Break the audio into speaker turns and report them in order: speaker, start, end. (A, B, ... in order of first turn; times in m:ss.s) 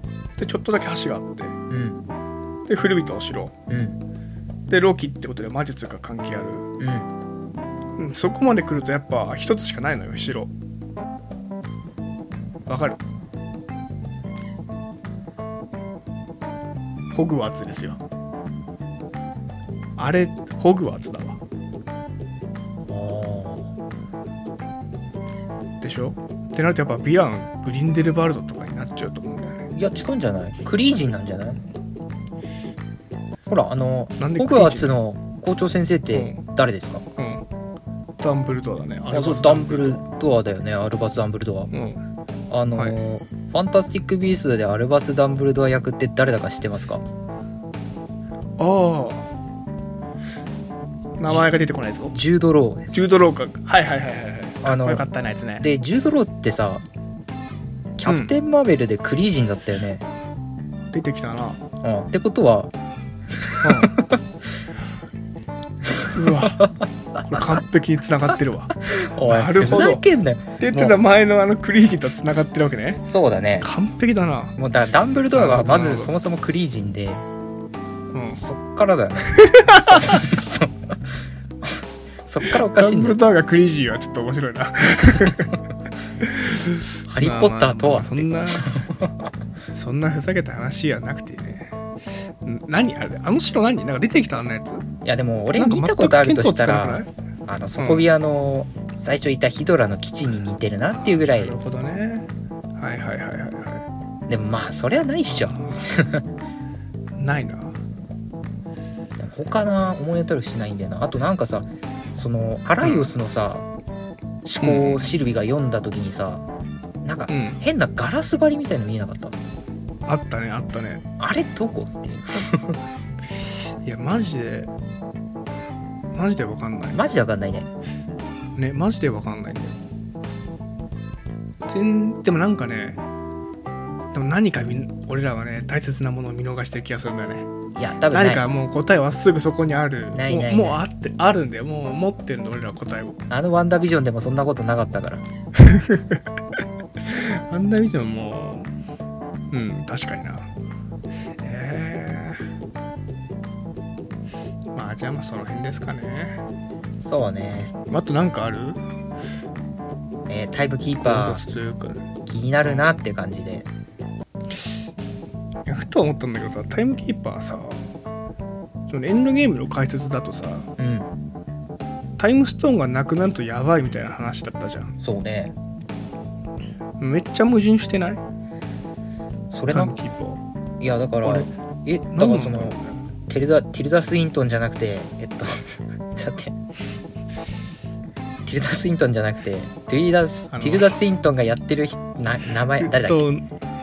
0:00.4-0:01.5 A
0:01.7-0:02.0 B
0:02.7-0:03.5 A
0:03.7-0:04.0 B
0:04.7-0:06.7 A
0:06.8-0:07.1 B
0:08.0-0:10.5 A
0:12.7-0:13.0 A
0:17.1-0:18.0 A
0:20.0-0:21.4 A
0:22.9-0:23.7 B
0:25.8-0:29.7 A
0:29.7-0:31.6 B
0:33.5-0:37.0 B
0:34.2-0:34.9 A
0:36.1-0:36.4 A
0:37.2-0:37.4 A
0:38.2-0:40.0 A
0:39.1-0:41.7 B
0:41.7-0:42.0 A
0:42.5-0:47.0 B
0:48.6-0:49.3 A
0:51.2-0:52.2 A
0:52.1-0:53.1 B
0:52.9-0:55.7 A
0:54.6-0:55.0 B
0:55.6-0:56.8 B
0:58.0-1:00.0 B
0:58.0-0:58.3 A
1:00.9-1:01.6 A
1:01.8-1:02.7 B
1:03.4-1:04.2 B
1:03.6-1:04.0 A
1:06.0-1:07.6 B
1:06.1-1:10.0 A
1:08.8-1:11.0 B
1:10.6-1:13.0 A
1:13.0-1:13.7 B
1:13.6-1:14.6 A
1:14.6-1:17.2 B
1:15.3-1:16.1 A
1:18.1-1:18.4 A
1:18.3-1:20.8 B
1:19.2-1:20.3 A
1:21.6-1:23.2 B
1:22.5-1:25.6 A
1:26.2-1:28.7 A
1:27.1-1:29.3 B
1:29.7-1:31.8 A
1:32.4-1:34.8 A
1:35.0-1:41.6 B
1:35.5-1:37.1 A
1:37.8-1:38.0 A
1:40.9-1:43.8 A
1:44.3-1:46.2 B
1:45.3-1:45.9 A
1:47.2-1:47.8 A
1:49.2-1:53.7 B
1:52.8-1:53.1 A
1:54.4-1:56.4 B
1:54.6-1:55.1 A
1:57.0-1:59.4 B
1:57.3-1:57.6 A
2:00.1-2:01.0 A
2:01.2-2:02.7 B
2:03.8-2:04.7 A
2:06.1-2:07.1 A
2:06.9-2:07.7 B
2:08.6-2:09.8 A
2:11.7-2:13.0 A
2:14.1-2:17.5 A
2:17.7-2:18.4 B
2:18.1-2:23.2 A
2:20.1-2:20.8 B
2:23.3-2:25.2 B
2:25.6-2:26.2 A
2:27.0-2:28.7 A
2:29.5-2:30.5 A
2:31.4-2:32.4 A
2:34.7-2:36.4 A
2:37.0-2:37.7 B
2:37.9-2:38.8 A
2:40.3-2:41.4 B
2:41.0-2:42.0 A
2:42.3-2:43.7 B
2:45.6-2:47.8 A
2:48.9-2:50.7 A
2:50.8-2:51.1 B
2:52.2-2:54.9 A
2:55.0-2:55.5 B
2:57.0-2:58.2 A
2:59.5-2:59.9 B
2:59.7-3:00.4 A
3:00.8-3:02.8 B
3:01.2-3:01.5 A
3:02.1-3:03.0 A
3:03.3-3:06.5 B
3:08.4-3:13.2 B
3:10.5-3:11.0 A
3:12.8-3:13.4 A